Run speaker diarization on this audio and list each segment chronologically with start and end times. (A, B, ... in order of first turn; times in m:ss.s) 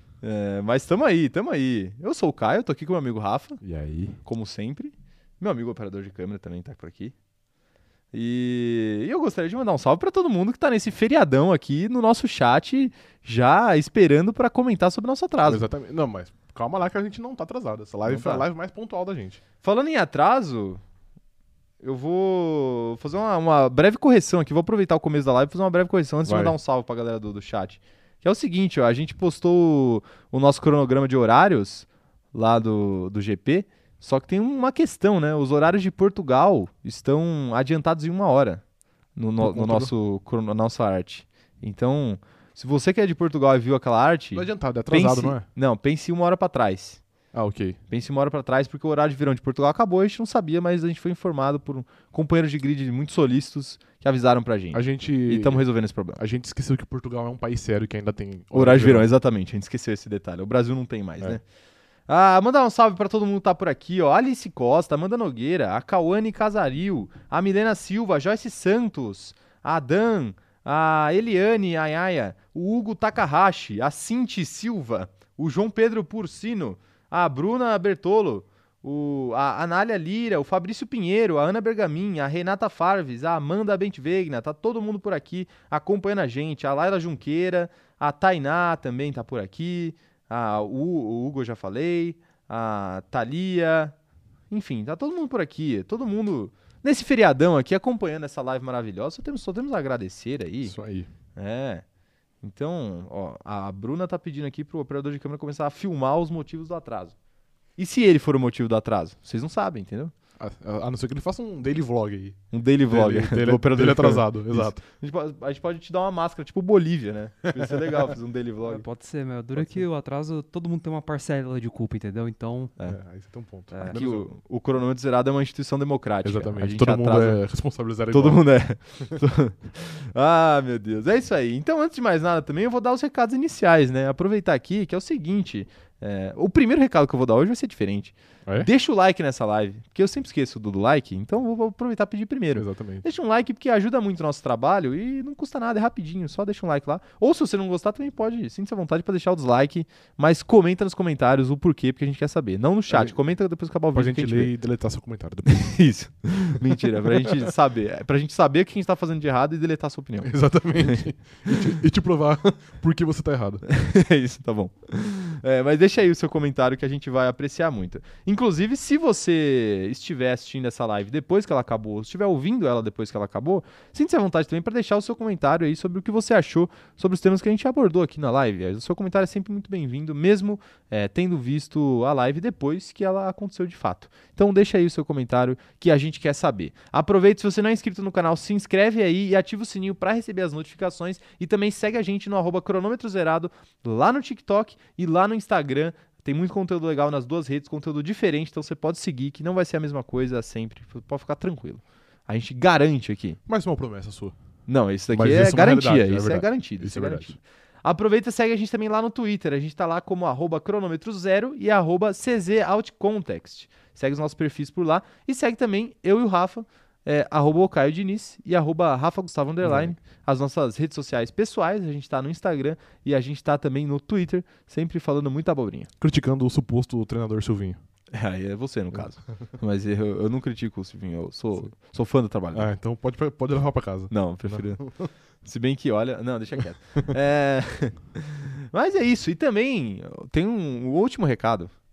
0:00.2-0:03.6 A
0:03.6-0:04.2 B
0:04.2-0:07.1 A
0:08.1-0:15.6 A
0:15.4-0:19.4 B
0:18.1-0:18.4 A
0:19.6-0:20.8 A
0:21.8-0:38.6 A
0:26.2-0:26.6 B
0:39.2-0:47.0 A
0:39.4-0:39.9 B
0:44.3-0:45.4 B
0:47.3-0:47.8 B
0:47.9-0:56.2 A
0:54.7-0:55.6 B
0:56.2-0:59.1 B
0:58.5-1:01.4 A
1:02.1-1:33.9 A
1:34.5-1:40.7 A
1:40.6-1:41.1 B
1:41.4-1:41.8 A
1:42.4-1:47.1 A
1:47.8-1:50.1 A
1:50.4-1:54.8 B
1:52.5-1:58.8 A
1:58.6-2:02.7 C
2:02.8-2:04.3 B
2:03.7-2:04.0 C
2:03.9-2:07.4 A
2:06.2-2:08.4 B
2:08.1-2:34.5 A
2:22.5-2:23.0 B
2:32.9-2:33.2 B
2:33.9-2:35.8 B
2:35.4-2:40.3 A
2:37.0-2:37.5 B
2:40.2-2:43.6 B
2:43.6-3:23.4 A
3:23.5-3:24.3 B
3:24.7-3:45.9 A
3:25.1-3:27.4 B
3:39.6-3:40.0 B
3:46.0-3:47.8 B
3:48.1-3:52.7 A
3:52.5-3:55.1 B
3:54.1-3:54.8 A
3:55.4-4:01.7 A